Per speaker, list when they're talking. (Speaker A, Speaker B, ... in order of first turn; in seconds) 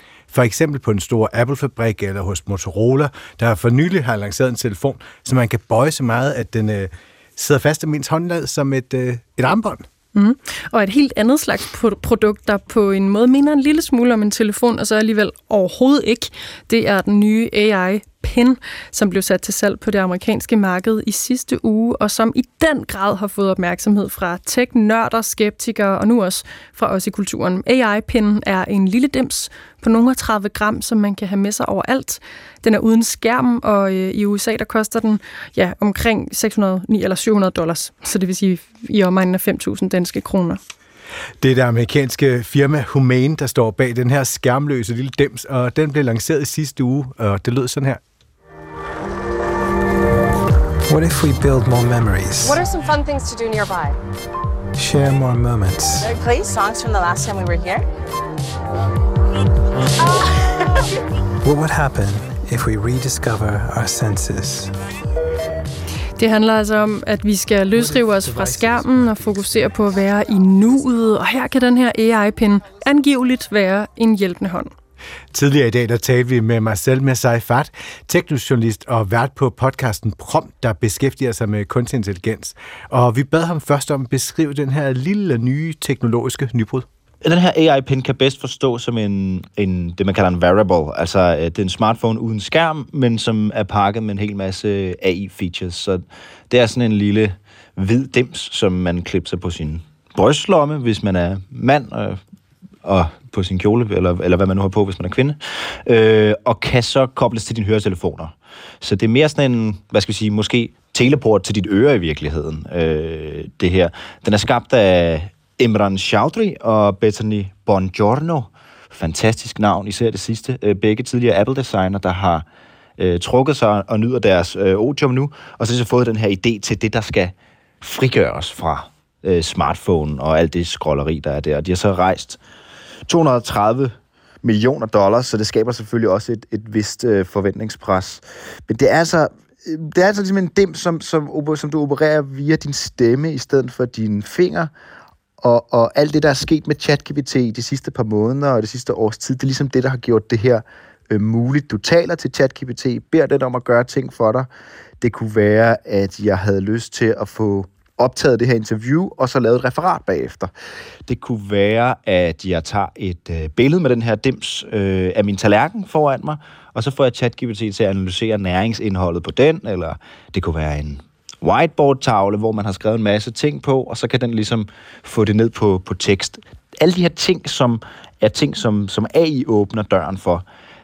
Speaker A: 0.3-9.8, 41.4-48.0, 75.3-86.8
Speaker B: 10.1-40.6, 66.2-74.7
Speaker C: 50.9-52.6, 54.8-56.1, 61.4-64.7
Speaker D: 52.4-54.0, 56.0-57.8
Speaker E: 87.2-102.2, 102.8-122.4, 123.0-132.4, 133.1-144.7, 145.4-154.5, 155.0-160.5, 161.1-180.4